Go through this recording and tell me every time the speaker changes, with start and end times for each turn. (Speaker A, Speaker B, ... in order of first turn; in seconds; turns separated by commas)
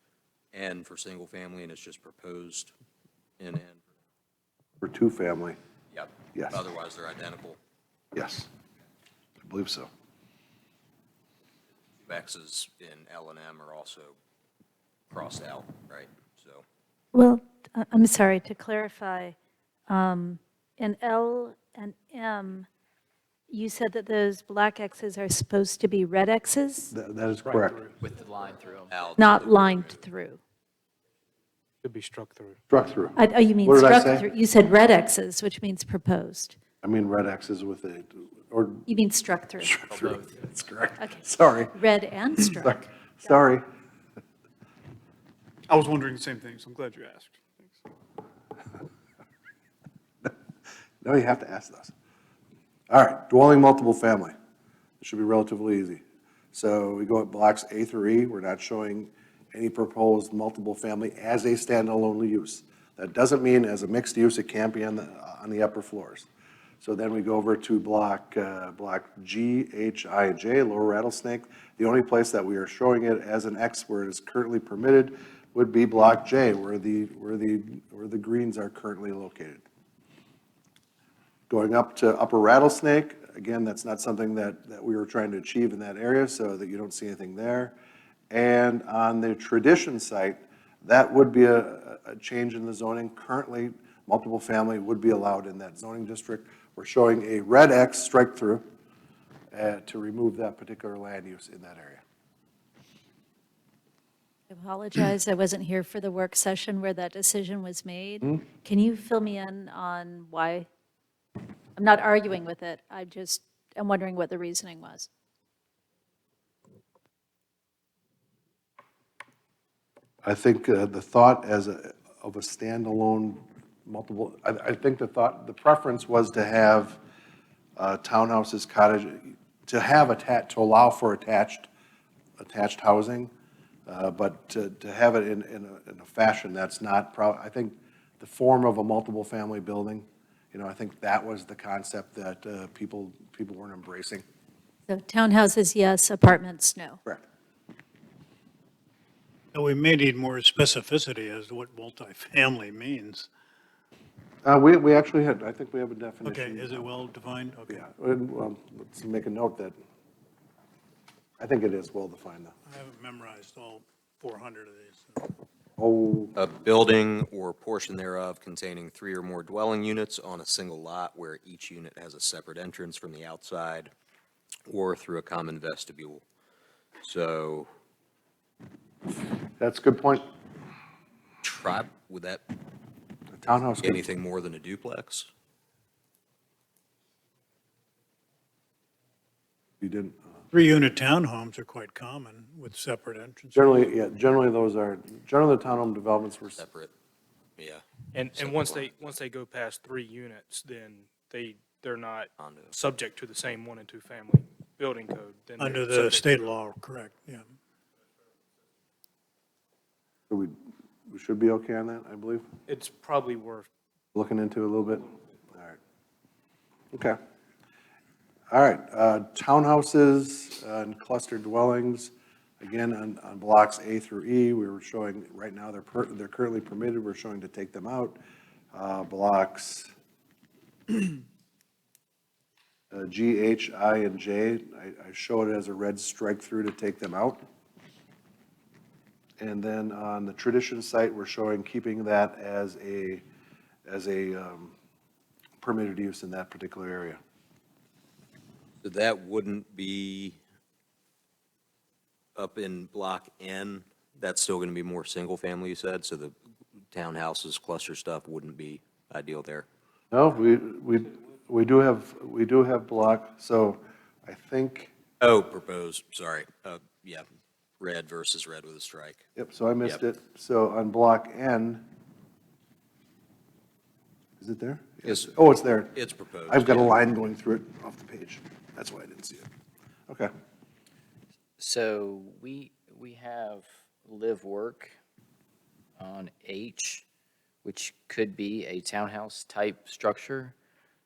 Speaker A: 0.5-2.7, Speaker A: 3.4-3.8, Speaker B: 4.8-5.6, Speaker A: 5.9-7.6, Speaker B: 8.1-8.5, Speaker B: 9.4-9.9, Speaker A: 12.1-14.2, Speaker A: 15.1-16.6, Speaker C: 17.1-19.4, Speaker C: 19.9-22.7, Speaker C: 23.5-26.9, Speaker B: 26.9-27.9, Speaker D: 28.0-28.9, Speaker A: 28.9-30.0, Speaker C: 29.2-30.4, Speaker E: 31.8-32.6, Speaker B: 32.7-34.2, Speaker C: 33.1-36.6, Speaker B: 36.8-38.9, Speaker C: 38.9-39.8, Speaker B: 39.6-41.7, Speaker D: 39.9-40.3, Speaker C: 41.0-43.4, Speaker B: 42.4-43.6, Speaker B: 51.0-51.9, Speaker B: 52.9-54.3, Speaker B: 55.0-66.3, Speaker B: 66.8-79.6, Speaker B: 81.5-87.7, Speaker B: 88.3-98.6, Speaker B: 99.5-102.0, Speaker C: 104.5-110.7, Speaker C: 111.8-115.1, Speaker B: 120.2-127.0, Speaker B: 127.8-131.7, Speaker B: 132.4-133.3, Speaker B: 133.9-144.2, Speaker C: 144.9-147.0, Speaker F: 149.5-153.3, Speaker B: 154.4-156.9, Speaker F: 156.2-157.9, Speaker B: 157.7-159.8, Speaker B: 161.4-162.5, Speaker F: 162.7-165.3, Speaker B: 165.8-166.3, Speaker A: 166.3-173.9, Speaker A: 174.7-176.2, Speaker A: 177.0-177.7, Speaker B: 179.6-180.2, Speaker A: 181.4-182.4, Speaker B: 183.3-184.0, Speaker A: 183.8-185.3, Speaker B: 189.8-190.2, Speaker F: 190.5-193.9, Speaker B: 193.6-196.6, Speaker A: 196.6-196.9, Speaker A: 197.6-199.2, Speaker E: 198.1-206.5, Speaker A: 202.4-202.7, Speaker F: 205.6-207.5, Speaker B: 210.3-210.6, Speaker B: 211.1-212.4, Speaker E: 212.7-213.7, Speaker B: 214.1-215.8, Speaker B: 216.9-217.2, Speaker B: 218.5-228.2, Speaker B: 228.7-229.9, Speaker B: 232.9-237.4, Speaker B: 239.4-243.2, Speaker B: 243.9-244.8, Speaker B: 245.6-247.2, Speaker A: 248.8-250.4, Speaker A: 252.4-256.4, Speaker A: 256.9-259.7, Speaker B: 260.1-264.9, Speaker A: 265.2-267.2, Speaker A: 267.8-269.2, Speaker B: 269.4-271.8, Speaker B: 274.4-275.9, Speaker A: 275.1-275.3, Speaker A: 275.9-277.0, Speaker B: 276.5-279.4, Speaker D: 281.6-284.9, Speaker D: 286.0-287.0, Speaker D: 287.6-290.5